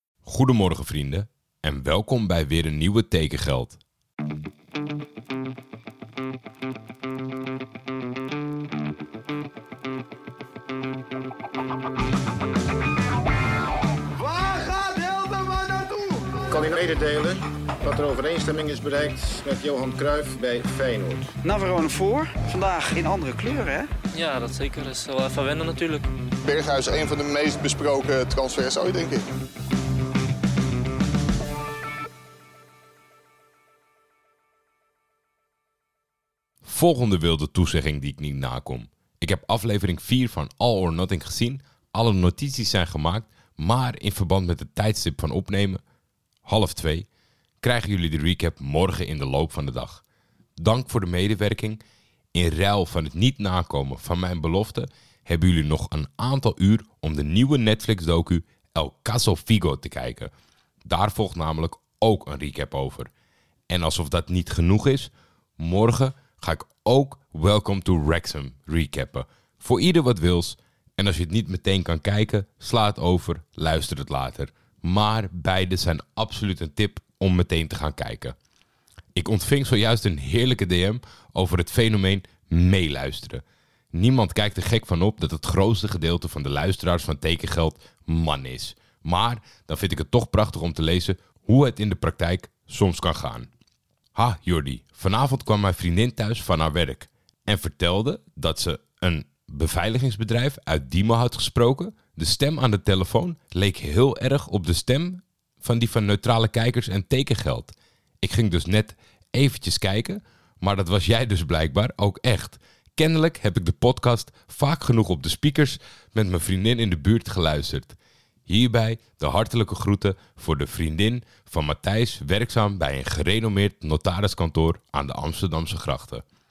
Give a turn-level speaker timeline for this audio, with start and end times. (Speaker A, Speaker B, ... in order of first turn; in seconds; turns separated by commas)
Speaker A: 0.2-3.8, Speaker B: 14.9-15.6, Speaker C: 16.3-21.3, Speaker B: 21.4-23.9, Speaker D: 24.1-26.1, Speaker E: 26.4-29.2, Speaker A: 36.6-45.8, Speaker A: 46.5-47.1, Speaker A: 47.6-50.0, Speaker A: 50.6-51.8, Speaker A: 52.3-60.3, Speaker A: 60.8-63.1, Speaker A: 63.7-78.3, Speaker A: 79.1-93.5, Speaker A: 94.1-118.0, Speaker A: 118.5-126.2